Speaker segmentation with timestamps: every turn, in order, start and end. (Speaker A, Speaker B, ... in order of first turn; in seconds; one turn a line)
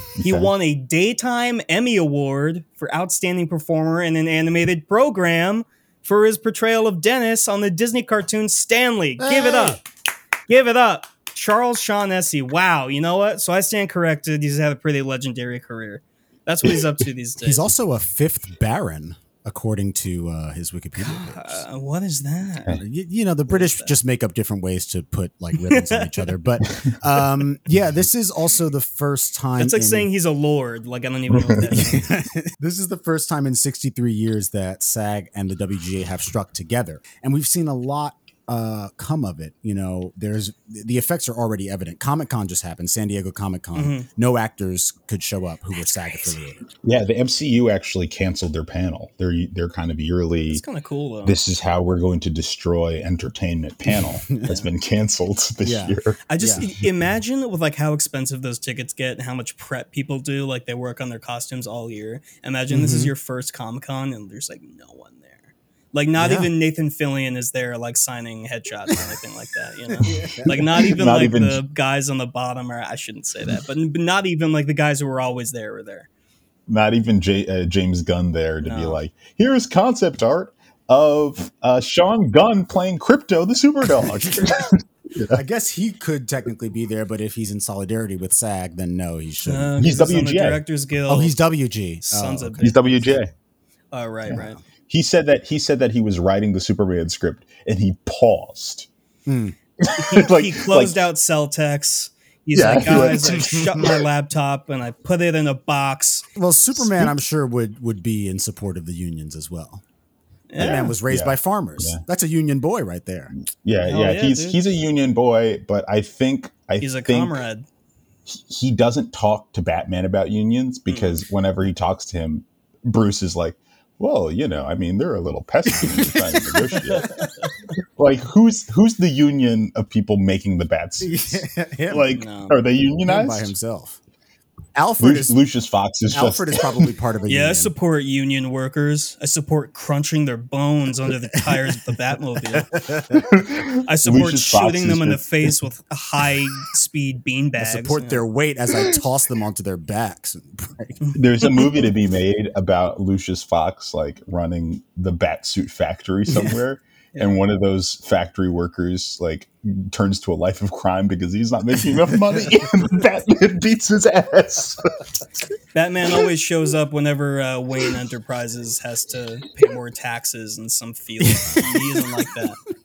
Speaker A: 0.2-0.5
Speaker B: 0.2-9.8
Speaker C: 9.2-9.8
Speaker B: 10.5-17.7
Speaker C: 17.4-21.6
Speaker B: 21.0-22.8
Speaker C: 22.7-30.1
Speaker B: 23.5-23.9
Speaker B: 25.6-26.3
Speaker B: 29.6-32.1
Speaker A: 31.3-31.6
Speaker C: 31.7-46.6
Speaker B: 43.7-44.1
Speaker A: 46.8-50.6
Speaker B: 50.5-51.4
Speaker A: 51.2-56.2
Speaker C: 54.0-54.4
Speaker C: 55.6-56.6
Speaker B: 56.3-76.1
Speaker C: 62.7-63.1
Speaker C: 66.2-66.5
Speaker C: 70.0-70.9
Speaker A: 70.1-71.6
Speaker A: 76.7-85.4
Speaker B: 78.6-79.0
Speaker C: 84.0-84.3
Speaker C: 85.3-89.8
Speaker B: 89.4-91.4
Speaker A: 89.8-90.6
Speaker C: 91.1-92.7
Speaker B: 92.0-93.0
Speaker A: 92.6-93.3
Speaker B: 93.9-94.6
Speaker C: 94.3-94.6
Speaker A: 94.9-98.9
Speaker C: 99.2-99.5
Speaker A: 99.8-101.0
Speaker B: 99.9-106.2
Speaker A: 102.5-104.0
Speaker C: 102.9-103.9
Speaker C: 106.3-109.8
Speaker A: 106.8-107.0
Speaker B: 110.5-110.9
Speaker A: 110.6-112.0
Speaker C: 110.6-113.3
Speaker A: 113.5-117.4
Speaker B: 113.8-114.6
Speaker B: 116.8-117.7
Speaker A: 118.3-127.3
Speaker B: 120.9-121.2
Speaker C: 125.7-127.3
Speaker B: 127.0-127.5
Speaker A: 128.0-133.5
Speaker C: 131.0-132.1
Speaker B: 132.1-132.6
Speaker C: 133.0-134.0
Speaker C: 134.7-135.4
Speaker A: 135.0-136.7
Speaker C: 136.1-137.7
Speaker B: 137.3-142.7
Speaker C: 142.5-143.2
Speaker A: 143.1-145.3
Speaker B: 143.8-148.2
Speaker C: 147.6-151.0
Speaker B: 151.0-151.8
Speaker A: 151.2-164.9
Speaker C: 156.3-156.6
Speaker B: 165.7-172.6
Speaker C: 171.2-172.0